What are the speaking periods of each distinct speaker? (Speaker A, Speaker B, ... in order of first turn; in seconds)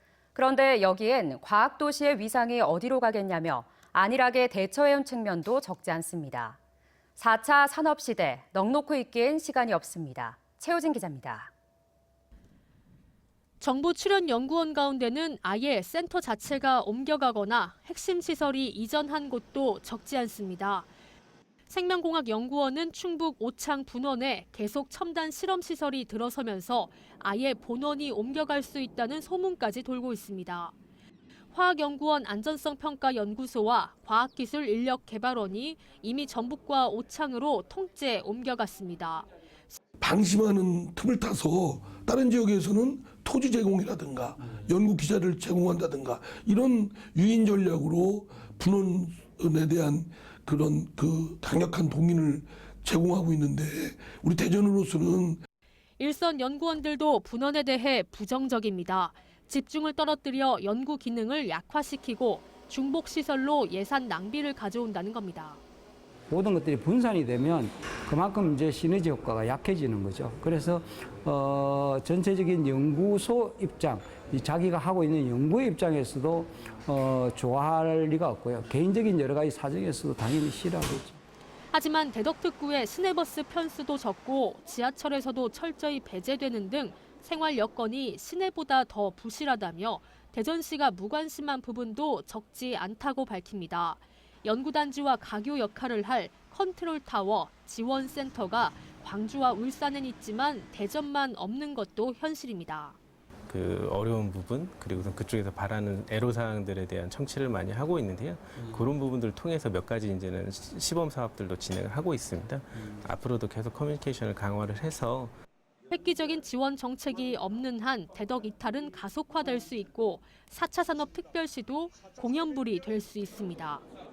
Speaker A: 0.3-6.6, 7.2-11.5
Speaker B: 13.6-20.9, 21.7-30.7, 31.5-39.3, 56.0-65.6, 81.7-103.0, 115.9-123.8
Speaker C: 40.0-55.4
Speaker D: 66.3-81.2
Speaker E: 103.5-115.3